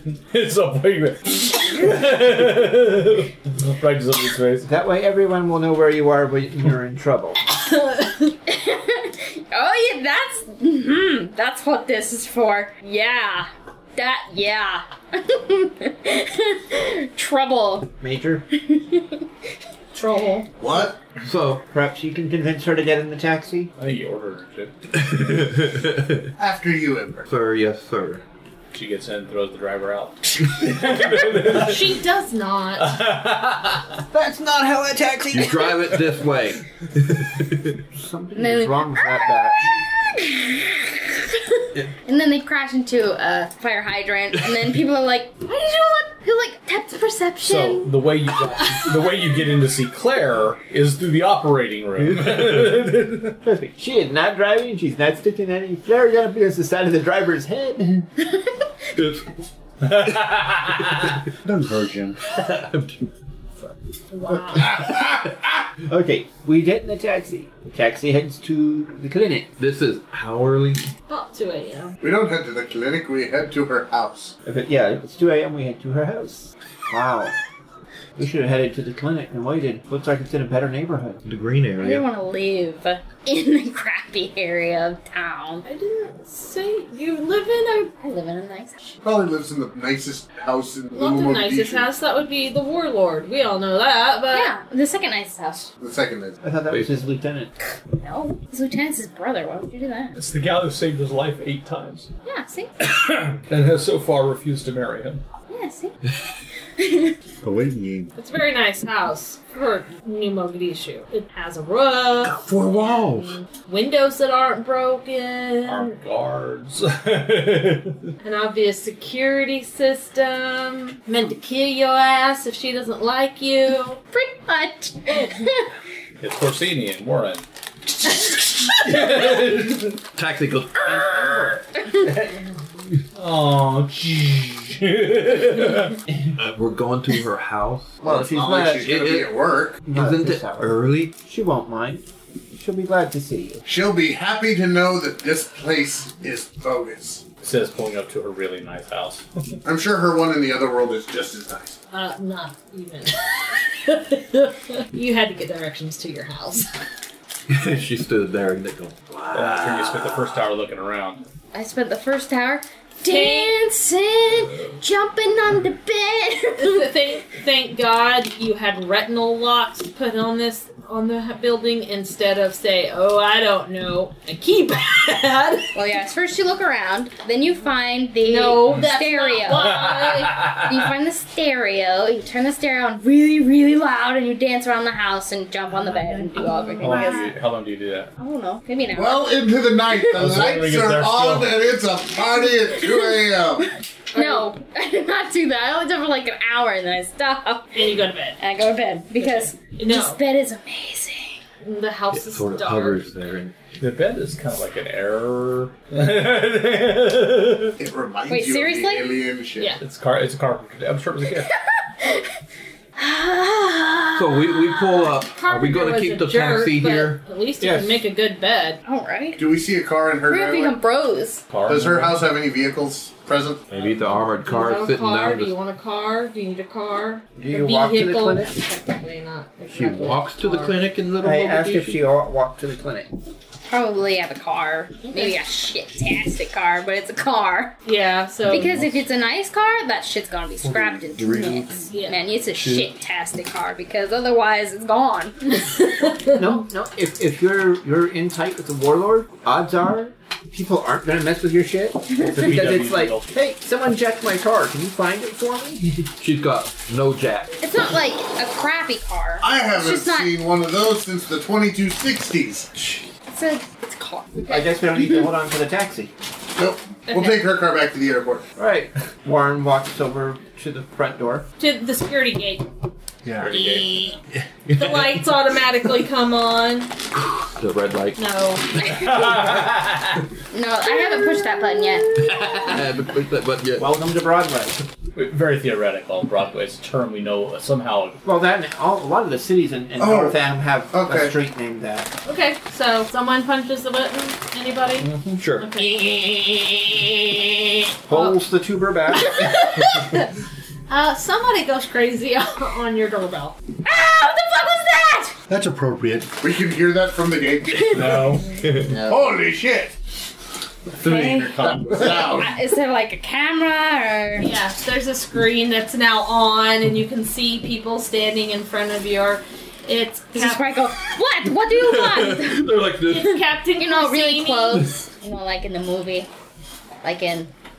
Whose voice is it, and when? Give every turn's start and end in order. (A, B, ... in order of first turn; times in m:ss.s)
0:00.3-0:04.7 A
0:04.6-0:07.4 B
0:07.6-0:08.2 C
0:08.5-0:17.9 D
0:18.0-0:18.4 B
0:18.5-0:19.2 D
0:19.9-0:20.4 C
0:20.6-0:21.0 E
0:21.2-0:21.6 F
0:21.7-0:23.7 B
0:23.8-0:24.7 A
0:24.9-0:26.3 F
0:26.4-0:27.2 E
0:27.3-0:28.2 F
0:28.7-0:31.9 A
0:31.5-0:33.0 C
0:32.8-0:33.9 A
0:34.1-0:36.0 B
0:35.3-0:37.8 F
0:37.9-0:39.7 B
0:38.3-0:39.4 D
0:40.1-0:40.8 D
0:41.5-0:47.9 D
0:47.4-0:53.4 A
0:52.0-0:52.8 F
0:53.4-0:58.1 B
0:58.9-0:59.3 F
0:59.8-1:01.1 A
1:01.4-1:02.2 G
1:02.3-1:03.0 F
1:04.1-1:04.7 C
1:04.5-1:05.3 E
1:05.9-1:09.5 B
1:09.6-1:10.8 F
1:11.1-1:11.9 C
1:12.0-1:14.3 E
1:14.4-1:17.3 B
1:18.2-1:21.2 B
1:21.2-1:22.0 F
1:21.8-1:25.6 D
1:25.6-1:27.9 C
1:28.0-1:28.8 D
1:29.0-1:31.9 E
1:30.9-1:34.5 C
1:34.3-1:35.7 D
1:35.8-1:36.4 E
1:36.4-1:37.5 B
1:36.7-1:37.0 F
1:38.0-1:40.1 D
1:40.2-1:42.1 A
1:42.2-1:42.7 D
1:42.8-1:45.2 A
1:45.5-1:45.9 D
1:46.8-1:47.1 D
1:47.4-1:48.1 G
1:48.2-1:56.0 C
1:52.2-1:53.4 F
1:55.6-1:58.1 A
1:58.2-2:04.0 C
2:04.1-2:05.6 D
2:06.2-2:07.4 A
2:08.7-2:10.0 A
2:10.2-2:11.5 F
2:10.8-2:11.6 B
2:13.1-2:16.0 A
2:16.4-2:19.3 F
2:18.0-2:19.0 B
2:18.2-2:19.8 E
2:19.8-2:23.6 B
2:19.9-2:21.1 F
2:23.6-2:27.2 E
2:27.4-2:29.3 A
2:29.6-2:31.8 E
2:31.9-2:36.7 C
2:37.5-2:40.3 F
2:39.3-2:41.2 A
2:41.5-2:46.9 D
2:43.0-2:43.6 C
2:46.6-2:55.8 C
2:55.7-3:07.3 D
2:58.2-3:00.3 C
3:00.1-3:00.8 A
3:06.0-3:07.2 C
3:06.8-3:08.1 A
3:08.2-3:09.3 D
3:08.9-3:13.6 E
3:10.1-3:11.5 A
3:12.8-3:13.2 D
3:14.1-3:14.5 C
3:14.1-3:17.8 D
3:17.7-3:18.4 C
3:18.4-3:21.4 D
3:19.1-3:20.2 C
3:21.6-3:23.0 C
3:22.1-3:23.6 F
3:23.8-3:27.7 A
3:27.8-3:29.8 E
3:28.3-3:29.1 D
3:29.8-3:31.5 A
3:33.0-3:35.2 D
3:34.2-3:37.2 F
3:35.3-3:38.8 C
3:37.6-3:38.0 B
3:38.8-3:39.4 D
3:39.4-3:40.8 E
3:40.3-3:41.4 D
3:41.5-3:42.3 A
3:41.6-3:43.6 E
3:43.7-3:45.5 F
3:43.7-3:50.8 C
3:47.4-3:48.5 B
3:49.7-3:52.0 F
3:51.2-3:53.1 B
3:53.6-3:57.8 D
3:55.0-3:55.4 C
3:57.8-3:58.8 C
3:58.5-4:05.6 D
4:01.9-4:02.2 C
4:02.6-4:02.8 A
4:05.6-4:06.4 C
4:06.3-4:16.1 B
4:12.2-4:13.3 A
4:16.2-4:17.5 F
4:17.6-4:20.3 D
4:19.4-4:22.8 E
4:23.3-4:25.3 D
4:24.5-4:26.1 B
4:26.6-4:28.4 E
4:28.6-4:31.4 B
4:31.6-4:32.7 C
4:33.2-4:33.5 G
4:33.4-4:33.9 A
4:34.7-4:35.1 F
4:34.7-4:36.9 C
4:37.2-4:38.2 F
4:38.2-4:38.6 C
4:39.0-4:39.8 F
4:39.0-4:39.7 A
4:40.5-4:42.2 D
4:42.2-4:43.9 F
4:43.8-4:44.8 B
4:45.1-4:48.2 A
4:48.2-4:52.1 B
4:50.0-4:51.3 E
4:52.2-4:55.9 C
4:55.3-4:55.7 F
4:58.1-4:59.7 B
4:59.2-5:00.3 C
5:00.9-5:03.6 C
5:03.8-5:05.3 D
5:05.5-5:06.3 G
5:06.4-5:08.3 E
5:07.9-5:08.5 A
5:08.6-5:09.0 F
5:08.9-5:09.9 E
5:11.0-5:14.5 D
5:11.0-5:11.7 F
5:11.5-5:12.5 E
5:14.4-5:20.7 C
5:20.3-5:22.7 D
5:21.6-5:23.4 F
5:23.1-5:24.9 C
5:23.8-5:26.3 D
5:27.0-5:27.5 D